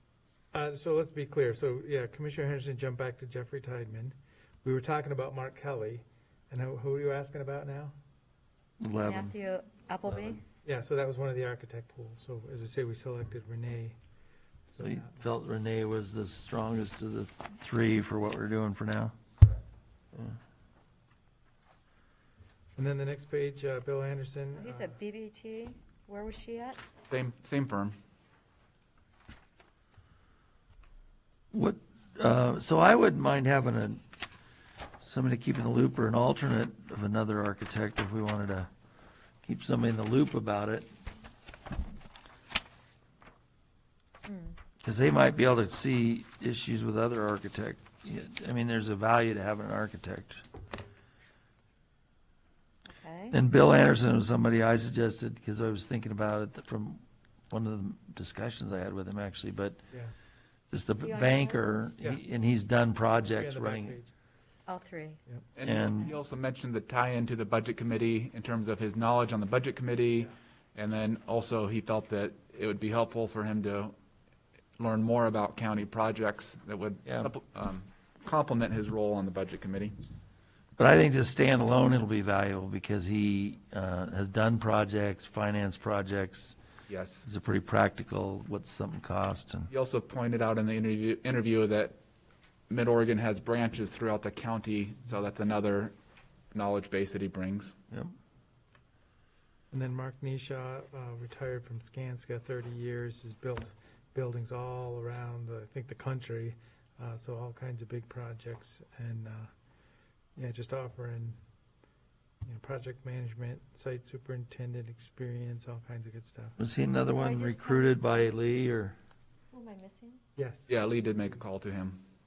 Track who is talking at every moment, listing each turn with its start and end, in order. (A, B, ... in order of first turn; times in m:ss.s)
0:00.5-0:07.9 A
0:08.8-0:09.3 B
0:09.0-0:10.4 C
0:10.6-0:14.0 A
0:14.7-0:15.1 A
0:14.8-0:19.1 B
0:22.8-0:24.9 A
0:24.5-0:26.8 C
0:27.1-0:27.9 D
0:31.5-0:34.0 B
0:35.0-0:38.7 B
0:39.4-0:40.9 B
0:44.2-0:44.6 C
0:44.8-0:50.4 B
0:52.9-0:53.4 C
0:53.3-0:59.8 B
1:00.7-1:03.9 B
1:01.0-1:01.7 C
1:03.4-1:04.1 A
1:04.7-1:05.2 C
1:05.6-1:13.9 D
1:05.6-1:06.1 B
1:14.8-1:19.9 D
1:20.8-1:26.6 B
1:26.9-1:27.3 D
1:27.2-1:29.7 B
1:29.7-1:32.0 D
1:32.7-1:35.9 D
1:36.5-1:37.8 D
1:39.7-1:49.5 A
1:50.4-1:51.4 A
1:52.4-1:56.6 A
1:56.6-1:59.0 B
1:57.1-1:58.0 C
1:59.5-2:00.2 C
2:00.4-2:00.7 A
2:00.7-2:02.0 D